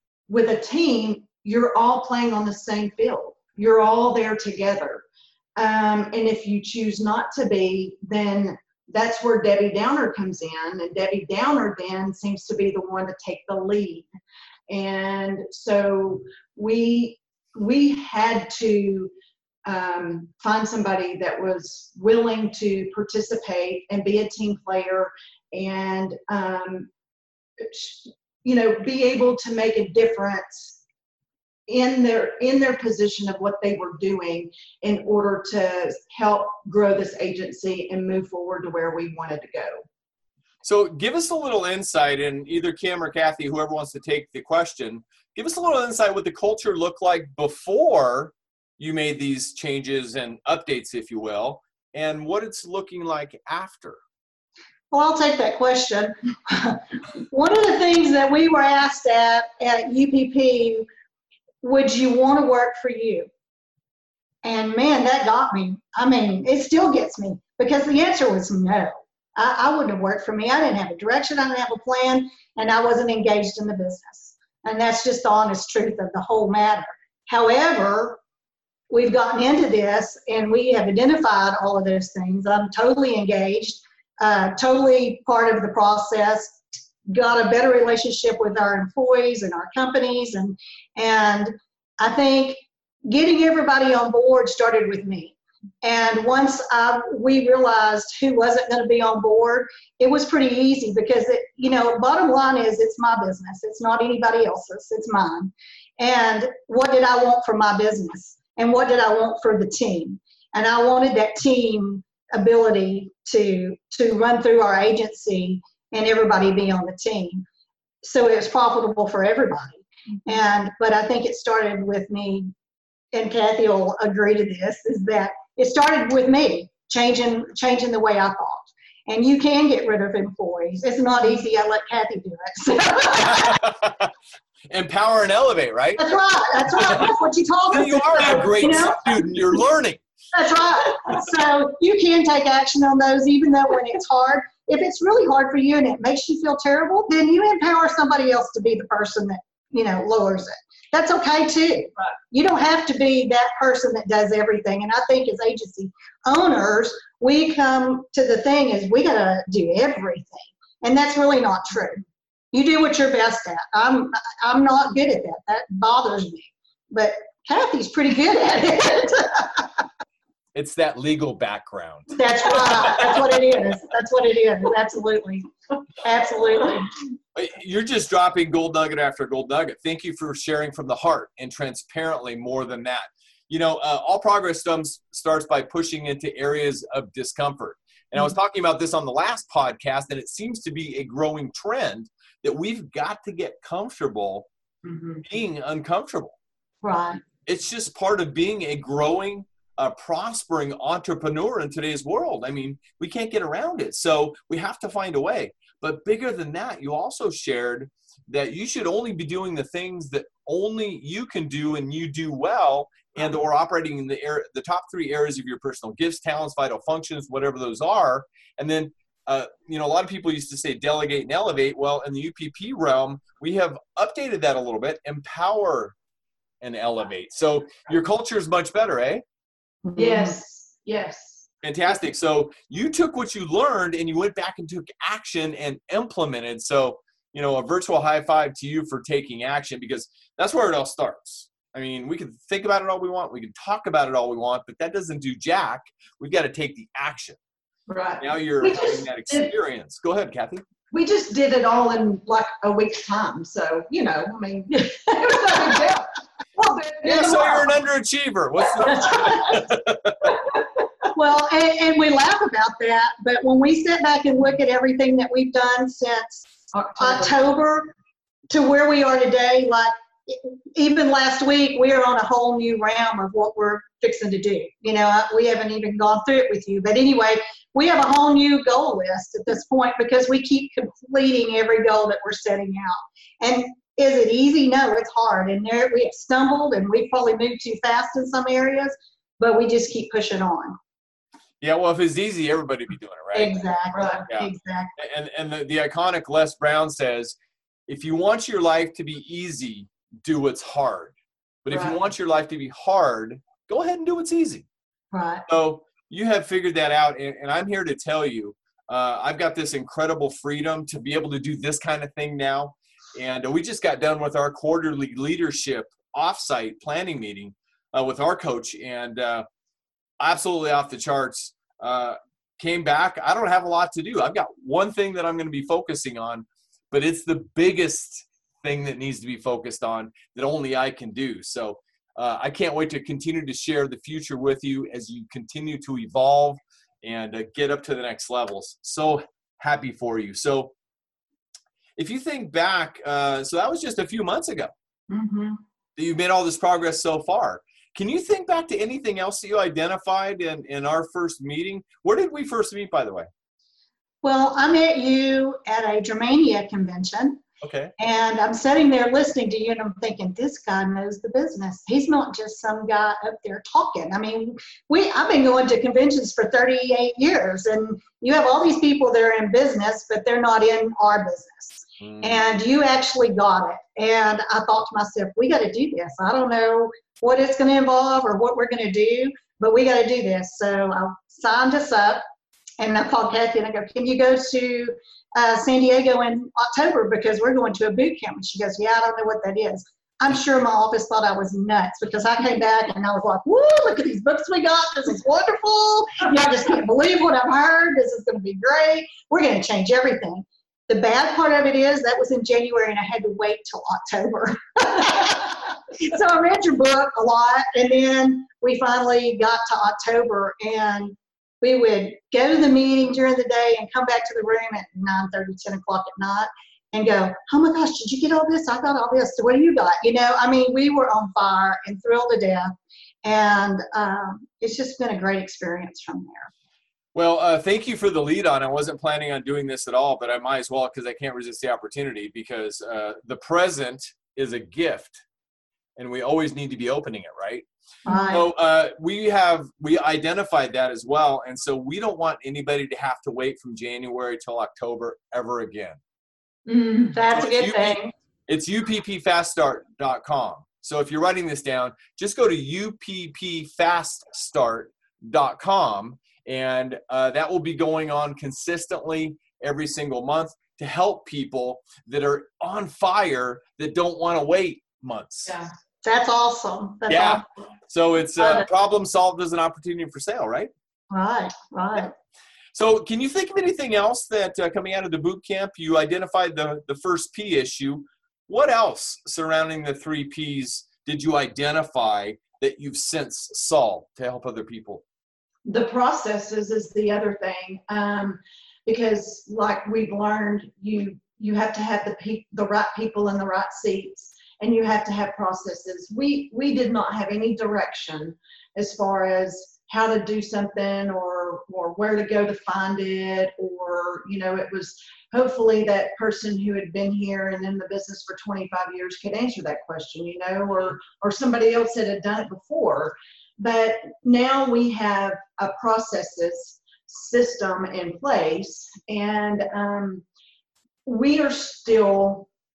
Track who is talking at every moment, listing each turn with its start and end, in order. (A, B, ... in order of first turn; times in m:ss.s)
0:00.3-0:05.0 A
0:05.6-0:14.1 A
0:14.7-0:19.1 A
0:19.6-0:26.9 A
0:27.6-0:30.8 A
0:31.7-0:39.8 A
0:40.6-0:54.0 B
0:54.9-1:00.8 C
1:01.6-1:03.3 C
1:04.4-1:18.2 C
1:18.9-1:57.4 C
1:58.0-2:02.5 C
2:03.1-2:13.6 C
2:13.1-2:14.1 B
2:14.7-2:16.0 B
2:16.0-2:19.2 C
2:17.7-2:20.0 B
2:20.3-2:49.8 C
2:50.5-2:53.3 B
2:52.2-2:55.5 C
2:56.0-2:56.9 C
2:57.3-3:14.5 B
3:14.8-3:15.2 A
3:15.2-3:16.4 B
3:16.8-3:17.2 C
3:17.4-3:45.9 B
3:46.6-3:49.2 B
3:49.8-3:50.3 C
3:49.9-3:51.4 A
3:51.6-4:07.4 B
4:07.9-4:09.5 A
4:08.2-4:10.6 B
4:10.9-4:17.7 A
4:15.1-4:15.8 C
4:17.0-4:17.3 C
4:17.0-4:20.4 B
4:21.1-4:27.9 C
4:26.7-4:27.4 A
4:28.5-4:50.8 C
4:51.6-4:53.7 B
4:53.3-4:54.9 C
4:53.9-4:54.2 A
4:54.3-4:57.3 B
4:57.9-5:01.1 B
5:01.6-5:04.6 B
5:01.7-5:02.0 A
5:05.1-5:05.4 C
5:05.5-5:19.4 B
5:20.2-5:40.7 B
5:42.0-5:44.7 B
5:45.2-5:45.5 C
5:46.0-5:53.3 B
5:54.2-5:57.4 C
5:57.6-5:57.9 B
5:58.0-6:22.2 C
6:12.0-6:12.4 B
6:22.8-7:06.5 C
7:07.1-7:15.2 B
7:16.0-7:17.6 B
7:18.0-7:18.4 C
7:18.3-7:26.0 B
7:26.7-7:27.1 A
7:27.1-7:28.1 C
7:27.3-7:45.5 B
7:45.4-7:45.7 A
7:46.0-7:47.4 C
7:47.1-7:50.7 B
7:48.4-7:48.6 C
7:51.1-7:52.1 C
7:52.7-8:05.0 B
8:05.7-8:40.2 A
8:41.0-8:42.5 A